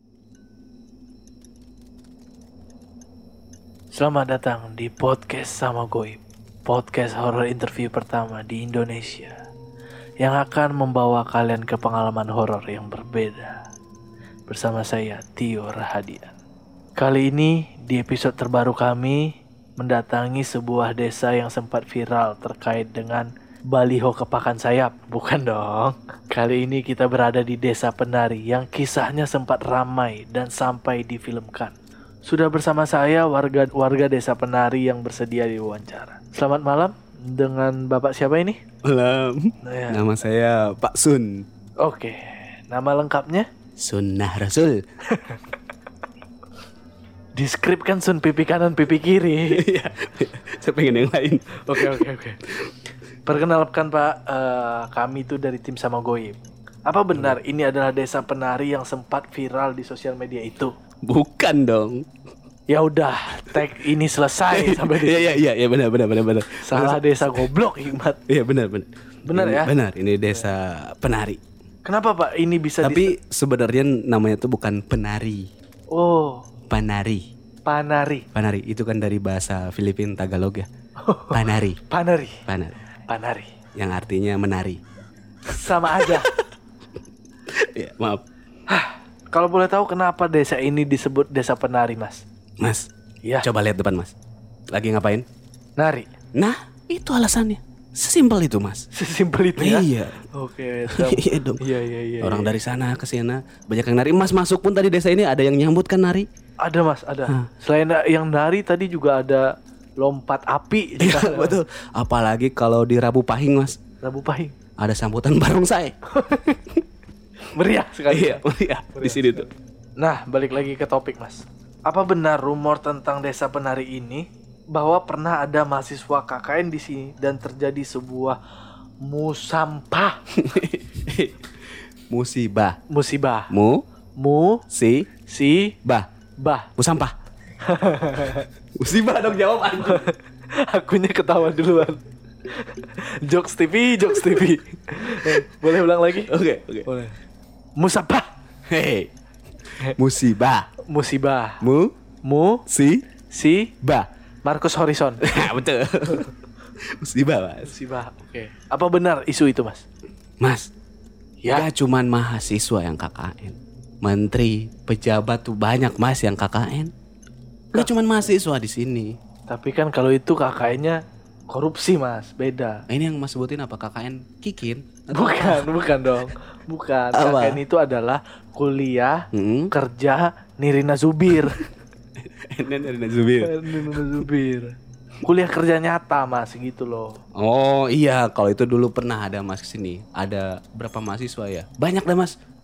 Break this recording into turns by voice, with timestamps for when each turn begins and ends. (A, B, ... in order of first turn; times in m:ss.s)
0:03.9-0:09.4 A
0:10.2-0:13.6 A
0:14.5-0:16.4 A
0:17.0-0:31.7 A
0:32.2-0:38.6 A
0:38.8-0:41.5 B
0:39.6-0:40.0 A
0:41.8-0:43.5 A
0:43.8-0:44.8 B
0:45.1-0:45.4 A
0:47.4-0:49.6 A
0:49.5-0:52.7 B
0:51.6-0:52.4 A
0:53.3-1:00.7 A
1:01.0-1:02.1 B
1:02.7-1:05.3 A
1:04.5-1:07.5 B
1:06.6-1:08.2 A
1:08.3-1:11.4 B
1:09.3-1:09.7 A
1:11.8-1:13.1 A
1:12.8-1:15.5 B
1:15.9-1:16.4 A
1:16.7-1:17.3 B
1:17.6-1:18.3 A
1:18.3-1:20.7 B
1:21.0-1:22.4 A
1:21.3-1:21.8 B
1:22.5-1:22.8 B
1:23.1-1:23.5 A
1:23.8-1:24.8 B
1:25.5-1:26.3 A
1:25.7-1:26.5 B
1:27.5-1:28.2 B
1:28.7-1:32.2 A
1:32.6-1:32.9 B
1:33.2-1:33.5 A
1:33.4-1:34.1 B
1:34.7-1:35.3 B
1:35.8-1:36.1 A
1:36.4-1:38.9 B
1:38.9-1:42.5 A
1:39.6-1:40.2 B
1:40.9-1:41.6 B
1:42.2-1:46.3 B
1:46.6-1:51.6 A
1:51.0-1:53.8 B
1:54.0-1:54.6 A
1:54.8-1:56.0 B
1:56.1-1:56.6 A
1:57.5-1:58.4 A
1:58.1-1:59.5 B
1:59.0-1:59.5 A
2:00.0-2:08.4 A
2:09.0-2:10.2 A
2:10.3-2:11.5 B
2:12.1-2:12.8 B
2:12.9-2:13.5 A
2:13.5-2:13.8 B
2:14.2-2:14.6 A
2:14.7-2:15.1 B
2:15.3-2:15.8 A
2:16.4-2:16.7 A
2:16.8-2:17.1 B
2:17.6-2:18.5 A
2:18.8-2:20.1 B
2:19.8-2:26.3 A
2:26.3-2:26.9 B
2:26.9-2:27.2 A
2:27.8-2:28.3 A
2:28.7-2:29.1 B
2:29.9-2:30.7 B
2:30.9-2:31.6 A
2:31.6-2:31.9 B
2:32.2-2:32.6 A
2:32.7-2:33.1 B
2:33.3-2:33.7 A
2:33.8-2:34.1 B
2:34.4-2:35.3 A
2:35.2-2:37.8 B
2:37.6-2:39.8 A
2:40.4-2:40.7 B
2:41.4-2:41.7 A
2:41.5-2:46.9 B
2:47.7-2:49.2 B
2:49.5-2:52.8 A
2:52.9-2:55.7 B
2:55.1-3:01.6 A
2:57.1-2:57.6 B
2:59.3-2:59.7 B
3:02.2-3:04.3 B
3:03.4-3:04.7 A
3:05.2-3:07.2 A
3:07.4-3:12.3 B